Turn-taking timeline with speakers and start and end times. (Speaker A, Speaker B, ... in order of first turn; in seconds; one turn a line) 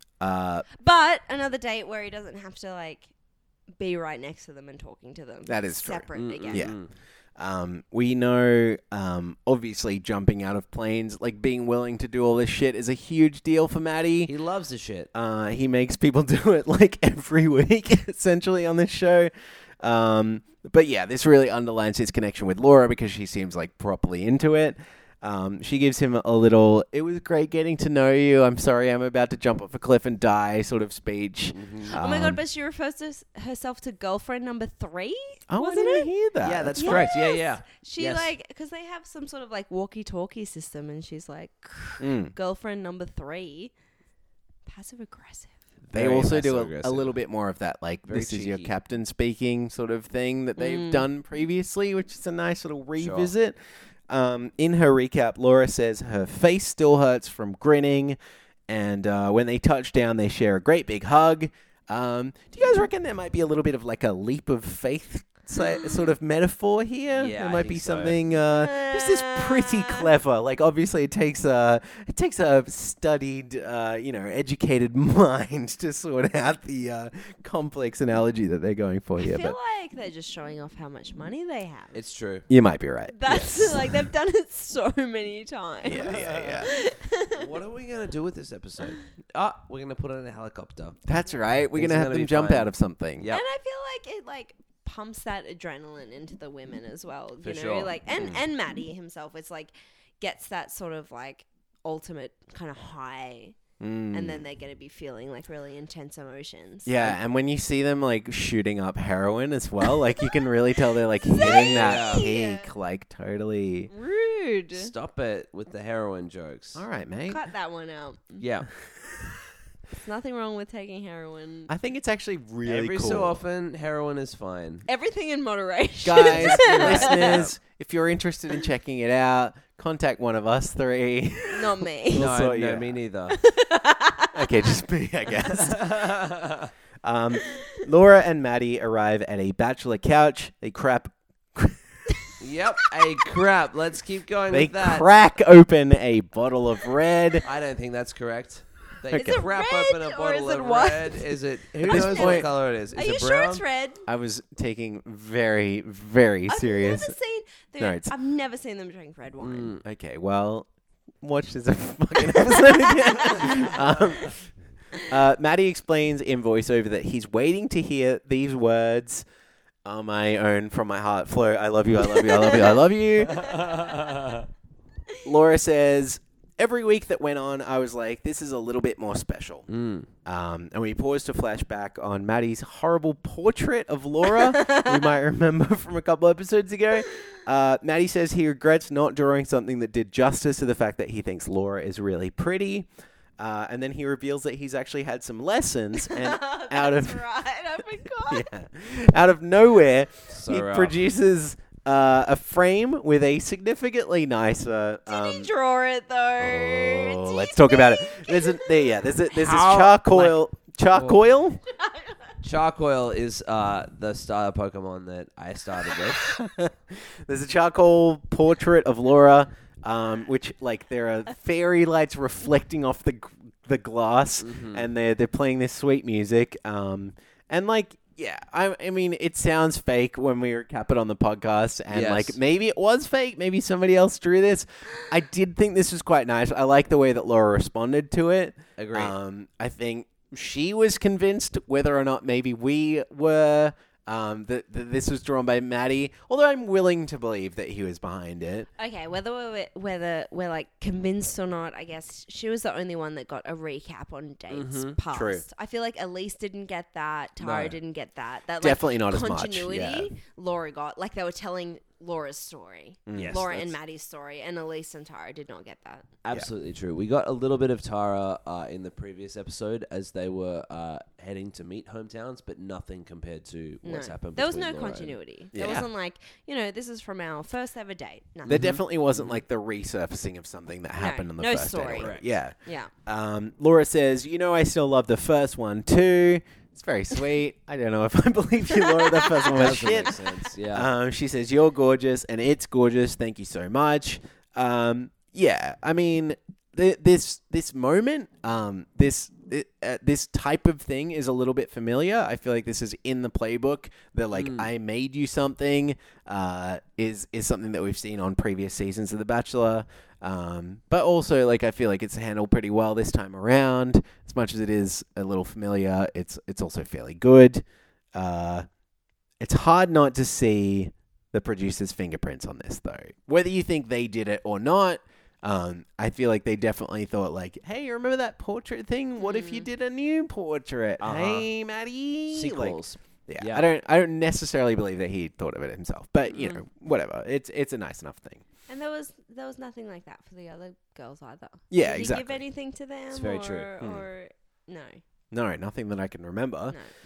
Speaker A: 0.2-0.7
Speaker B: 0.8-3.1
Speaker B: 3.8-6.7
Speaker A: 5.5-6.8
Speaker C: 6.1-6.9
Speaker A: 7.4-14.3
Speaker C: 14.3-15.1
Speaker A: 15.1-32.4
Speaker C: 31.5-32.0
Speaker B: 31.9-36.1
Speaker A: 35.5-37.1
Speaker C: 36.4-38.3
Speaker B: 36.8-43.7
Speaker A: 42.0-42.4
Speaker B: 44.6-45.5
Speaker A: 45.9-53.6
Speaker C: 45.9-47.1
Speaker C: 48.1-48.7
Speaker B: 50.6-51.1
Speaker C: 53.0-53.3
Speaker A: 54.1-79.6
Speaker C: 67.1-68.3
Speaker B: 68.5-70.1
Speaker B: 79.2-82.0
Speaker C: 81.9-82.5
Speaker A: 82.5-84.1
Speaker B: 83.1-87.5
Speaker A: 85.8-86.7
Speaker C: 86.0-86.7
Speaker C: 87.4-91.0
Speaker A: 91.1-93.3
Speaker C: 91.7-93.4
Speaker B: 93.3-103.6
Speaker C: 97.4-97.9
Speaker A: 103.8-104.4
Speaker B: 104.1-107.1
Speaker A: 106.9-113.9
Speaker B: 111.3-112.7
Speaker C: 111.4-112.3
Speaker B: 113.9-114.9
Speaker C: 114.7-116.8
Speaker A: 116.8-117.4
Speaker B: 117.3-118.4
Speaker C: 118.4-118.7
Speaker B: 120.0-121.7
Speaker A: 121.7-123.4
Speaker C: 122.6-124.8
Speaker B: 124.9-127.4
Speaker A: 126.0-133.0
Speaker C: 126.1-127.5
Speaker B: 131.5-132.3
Speaker C: 132.1-133.4
Speaker B: 133.3-134.6
Speaker A: 134.3-136.2
Speaker C: 135.5-136.7
Speaker A: 137.0-142.0
Speaker C: 142.4-145.1
Speaker A: 144.5-147.4
Speaker C: 147.4-153.6
Speaker A: 149.1-149.4
Speaker B: 149.1-154.0
Speaker A: 151.8-152.5
Speaker A: 154.1-157.2
Speaker B: 156.5-159.8
Speaker A: 157.8-158.1
Speaker C: 159.4-159.8
Speaker A: 159.8-160.7
Speaker A: 161.2-164.5
Speaker B: 162.3-163.8
Speaker A: 165.1-169.2
Speaker A: 169.8-173.6
Speaker B: 172.0-172.8
Speaker C: 173.3-174.4
Speaker B: 173.4-173.9
Speaker A: 175.2-179.7
Speaker C: 179.7-180.1
Speaker A: 180.2-192.9
Speaker B: 184.3-184.9
Speaker A: 193.4-197.2
Speaker B: 195.9-198.5
Speaker A: 198.3-205.5
Speaker C: 200.3-201.0
Speaker B: 205.1-209.3
Speaker A: 206.4-211.6
Speaker C: 209.4-210.4
Speaker C: 210.9-211.2
Speaker B: 211.7-212.3
Speaker C: 212.4-216.3
Speaker A: 216.2-248.7
Speaker C: 224.4-224.9
Speaker C: 231.9-232.4
Speaker C: 238.8-239.1
Speaker B: 248.8-266.1
Speaker C: 254.5-255.0
Speaker A: 255.1-255.4
Speaker C: 257.4-257.8
Speaker A: 258.6-260.1
Speaker A: 263.1-263.4
Speaker C: 263.1-263.7
Speaker C: 266.2-275.1
Speaker B: 273.8-278.6
Speaker A: 275.5-275.9
Speaker C: 278.4-279.4
Speaker A: 278.5-318.6
Speaker B: 281.0-282.9
Speaker C: 282.0-282.3
Speaker B: 288.8-289.5
Speaker C: 289.6-290.9
Speaker C: 304.4-304.7
Speaker A: 319.4-338.4
Speaker B: 329.2-329.7
Speaker C: 331.0-331.5
Speaker C: 332.3-333.6
Speaker C: 336.3-336.6
Speaker B: 338.7-345.0
Speaker A: 341.7-342.4
Speaker C: 343.1-343.7
Speaker A: 345.3-346.8